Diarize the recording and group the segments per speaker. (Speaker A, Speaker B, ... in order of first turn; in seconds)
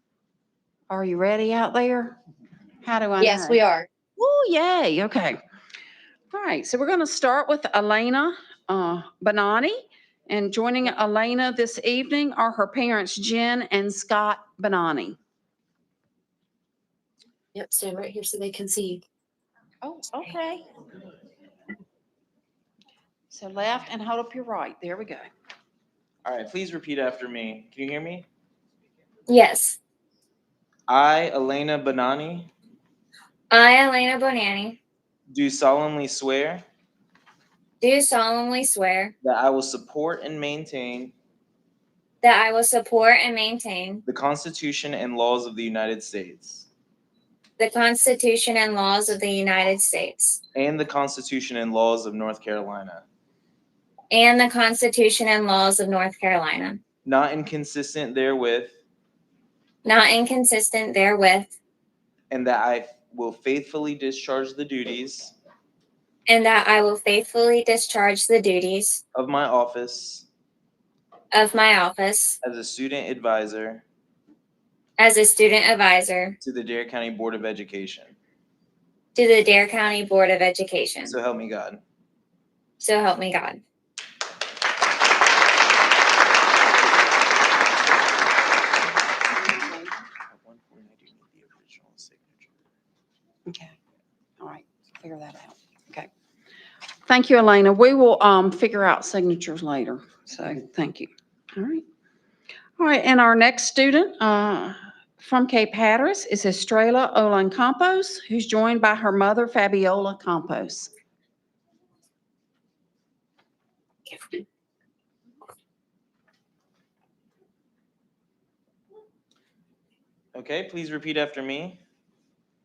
Speaker A: 0.9-2.2, 2.8-3.6, 4.2-5.4, 6.3-15.2, 19.8-20.6, 23.3-25.3, 93.5-93.8, 94.4-96.1, 97.1-101.8, 102.8-110.9
Speaker B: 3.3-3.9, 17.6-19.0
Speaker C: 26.2-28.3, 30.9-32.5, 35.3-36.6, 39.2-41.1, 44.1-46.7, 50.5-53.0, 57.0-58.8, 62.3-65.3, 69.1-70.3, 72.4-73.8, 76.4-78.2, 81.0-81.8, 90.3-92.5, 120.3-121.8
Speaker D: 29.3-29.8, 33.5-34.8, 37.8-39.1, 42.2-44.0, 47.6-50.4, 54.1-56.8, 59.8-61.5, 66.3-69.0, 71.3-72.4, 75.0-76.4, 79.2-81.2, 82.8-83.6